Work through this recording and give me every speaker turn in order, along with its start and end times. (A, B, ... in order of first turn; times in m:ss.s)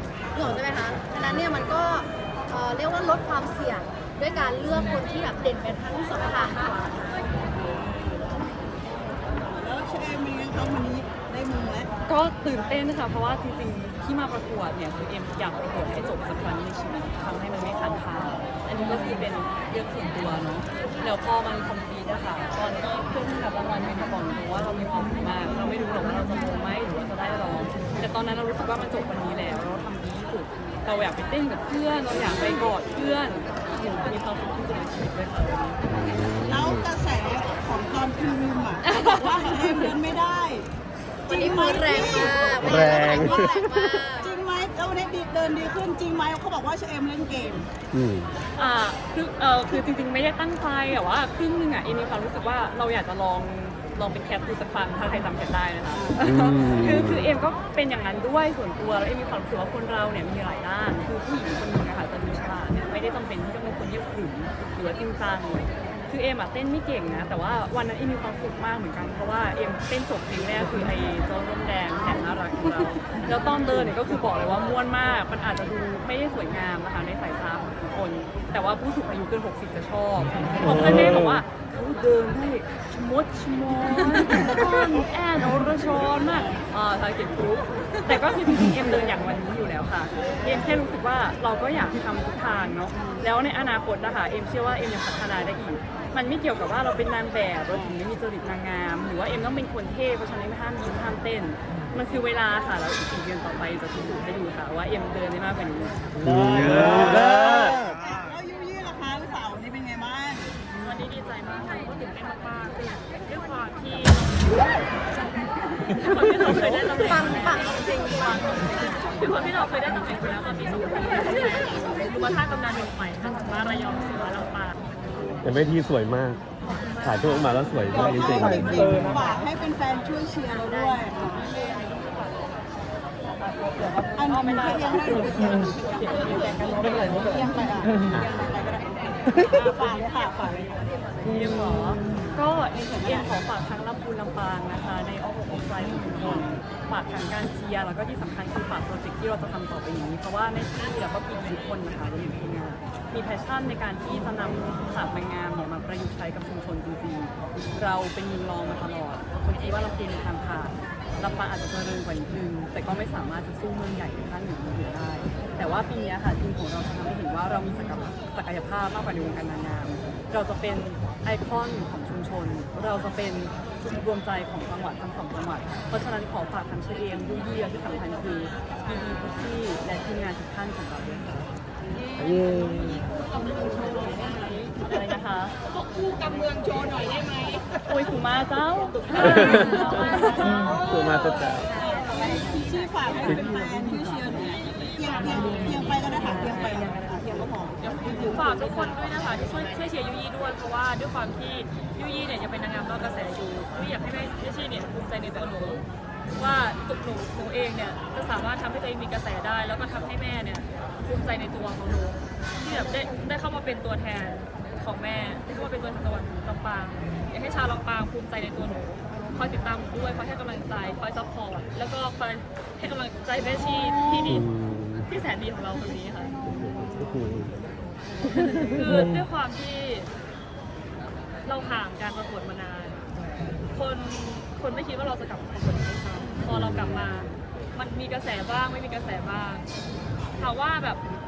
0:00.3-0:07.1 A
0:07.5-0:08.4 B
0:09.4-0:11.9 B
0:12.0-0:35.8 C
0:18.8-0:19.2 B
0:35.9-0:36.9 D
0:36.4-0:40.7 B
0:41.3-0:44.4 A
0:41.3-0:42.9 B
0:42.6-0:44.0 D
0:44.2-0:47.7 B
0:47.9-0:48.3 D
0:48.6-1:46.0 C
0:55.9-0:56.3 B
0:56.2-0:57.3 D
1:20.6-1:21.4 D
1:32.9-1:33.3 B
1:37.7-1:38.0 B
1:46.2-1:47.7 D
1:46.6-1:50.5 B
1:50.7-1:54.8 E
1:55.8-2:04.8 E
1:56.4-1:59.2 A
2:01.8-2:02.2 A
2:05.4-2:06.5 D
2:06.8-2:07.3 A
2:07.0-2:09.2 D
2:07.9-2:11.5 B
2:08.0-2:08.4 A
2:10.5-2:11.7 A
2:11.4-2:12.2 E
2:13.4-2:17.4 C
2:14.1-2:20.8 B
2:21.2-3:01.5 C
2:22.8-2:23.3 B
2:26.3-2:26.6 B
3:02.2-3:03.1 D
3:03.4-3:04.1 E
3:04.6-3:05.5 C
3:07.8-3:10.6 C
3:09.2-3:10.2 E
3:09.2-3:11.8 D
3:09.5-3:10.3 A
3:11.8-3:18.2 B
3:11.9-3:12.4 A
3:13.2-3:13.5 D
3:18.0-3:25.8 E
3:26.3-3:44.4 E
3:43.8-3:44.4 B
3:44.2-3:45.1 D
3:45.0-3:46.3 E
3:46.1-3:47.4 B
3:46.4-3:47.6 D
3:48.4-3:50.1 E
3:48.4-3:49.2 D
3:51.4-3:53.1 E
3:53.7-3:59.6 E
3:56.5-3:57.1 D
4:00.4-4:01.0 E